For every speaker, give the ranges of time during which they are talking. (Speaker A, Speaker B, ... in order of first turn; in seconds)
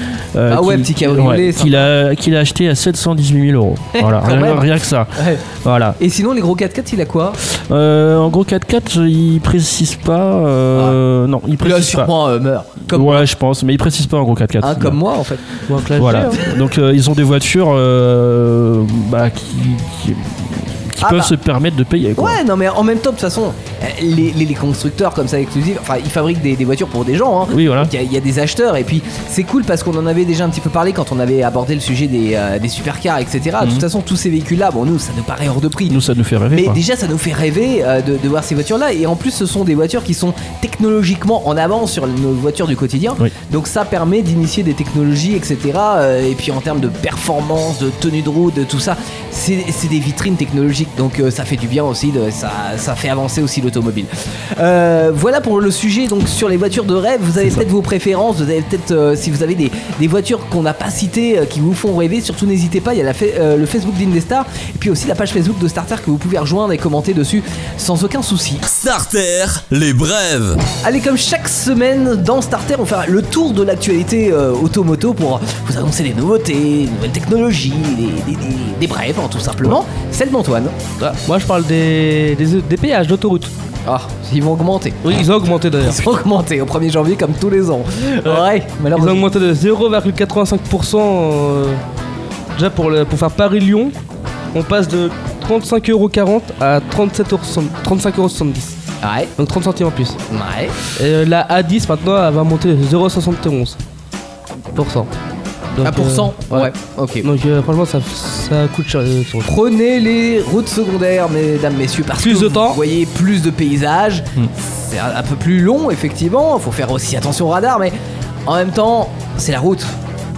Speaker A: 0.3-6.0, 7.5-12.1, 12.9-15.0, 16.0-22.4, 27.5-27.9, 33.6-33.8, 35.9-36.8
Speaker B: 0.5-1.9, 3.9-5.4, 6.0-7.4, 11.6-13.3, 14.6-16.5, 21.0-21.3, 22.2-36.0, 36.5-68.6, 70.8-80.7, 83.8-85.1, 85.8-89.3, 99.0-99.3, 100.3-100.7, 105.8-107.3, 109.4-117.9, 118.5-120.0
Speaker C: 15.7-16.4, 81.0-83.5, 85.0-86.0, 88.2-91.8, 92.5-93.9, 94.5-98.7, 99.4-100.2, 101.0-103.8, 104.7-105.1, 105.7-106.7, 107.2-109.5, 112.2-112.8
Speaker D: 68.6-70.6